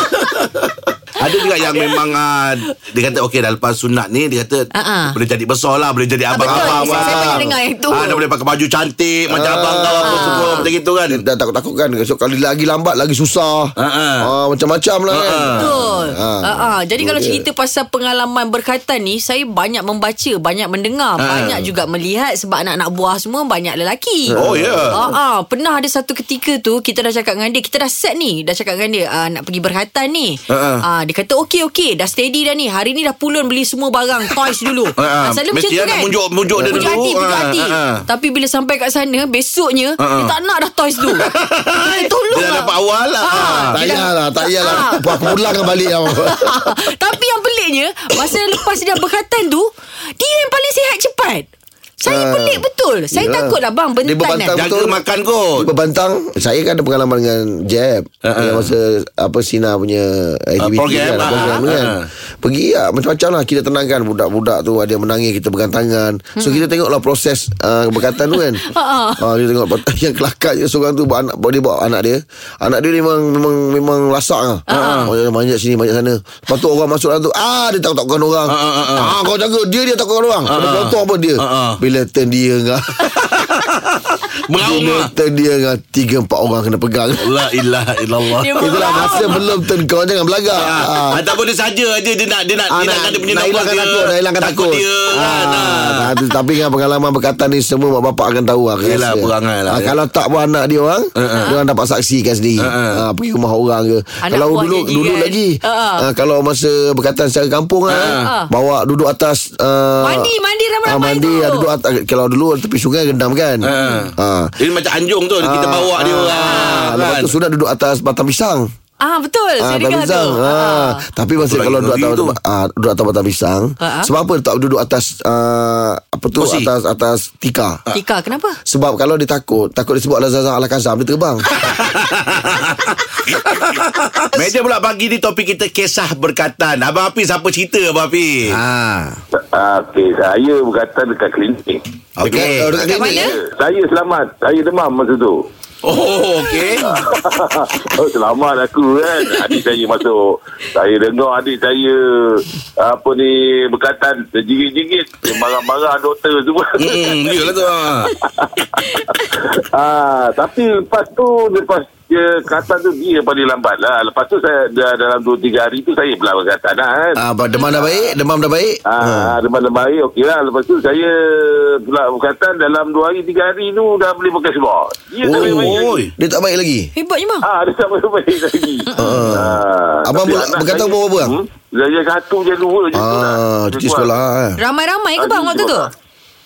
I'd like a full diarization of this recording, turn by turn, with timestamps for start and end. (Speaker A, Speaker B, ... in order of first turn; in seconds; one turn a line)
Speaker A: 0.2-0.5
Speaker A: 1.2-11.2
Speaker B: 1.6-1.9
Speaker B: 4.7-5.1
Speaker B: 6.3-8.2
Speaker C: 6.4-7.5
Speaker C: 9.3-17.4
Speaker B: 10.0-10.6
Speaker A: 13.8-14.3
Speaker A: 15.1-15.7
Speaker B: 15.6-24.4
Speaker A: 21.2-21.7
Speaker C: 24.3-25.0
Speaker A: 24.4-25.0
Speaker B: 24.9-36.1
Speaker A: 30.5-30.8
Speaker A: 35.0-38.0
Speaker C: 36.5-37.0
Speaker B: 36.7-41.3
Speaker A: 40.0-40.3
Speaker A: 41.1-43.8
Speaker B: 41.8-42.7
Speaker B: 43.2-45.4
Speaker C: 43.7-46.7
Speaker B: 46.1-51.5
Speaker B: 52.0-54.6
Speaker C: 52.0-55.0
Speaker A: 54.5-55.7
Speaker C: 55.6-68.7
Speaker A: 58.2-58.7
Speaker A: 60.6-62.1
Speaker B: 66.4-66.6
Speaker B: 68.7-69.2
Speaker C: 69.2-83.0
Speaker B: 74.7-75.1
Speaker A: 74.8-75.1
Speaker A: 78.5-79.2
Speaker A: 80.5-81.8
Speaker A: 83.0-85.1
Speaker C: 84.6-87.3
Speaker A: 87.2-89.4
Speaker B: 88.4-89.4
Speaker C: 88.6-91.2
Speaker A: 90.6-96.1
Speaker C: 92.7-110.3
Speaker A: 98.8-99.9
Speaker A: 101.2-101.5
Speaker A: 102.6-103.0
Speaker B: 104.2-106.0
Speaker A: 107.9-108.3
Speaker B: 108.2-108.5
Speaker B: 110.0-111.7
Speaker C: 110.8-114.5
Speaker A: 113.6-117.3
Speaker B: 113.8-114.0
Speaker C: 115.4-118.7
Speaker B: 116.4-116.9
Speaker B: 119.0-121.0
Speaker C: 119.6-127.8
Speaker A: 121.4-122.3
Speaker B: 123.8-124.1
Speaker A: 126.4-126.7
Speaker B: 127.9-128.6
Speaker C: 128.7-131.5
Speaker A: 131.6-138.6
Speaker C: 138.4-139.2
Speaker D: 139.3-142.5
Speaker A: 142.2-142.7
Speaker C: 142.2-143.3
Speaker B: 142.8-143.3
Speaker D: 143.1-145.4
Speaker A: 145.8-146.8
Speaker B: 146.4-146.8
Speaker D: 146.9-168.0
Speaker A: 156.8-158.1
Speaker B: 158.8-159.3
Speaker C: 167.2-169.3
Speaker D: 168.8-176.0
Speaker C: 175.2-176.9
Speaker A: 175.2-176.1
Speaker B: 176.9-177.4
Speaker D: 177.4-184.2
Speaker B: 178.9-179.3
Speaker C: 179.0-181.3
Speaker C: 182.9-184.6
Speaker B: 184.6-185.9
Speaker D: 185.2-185.9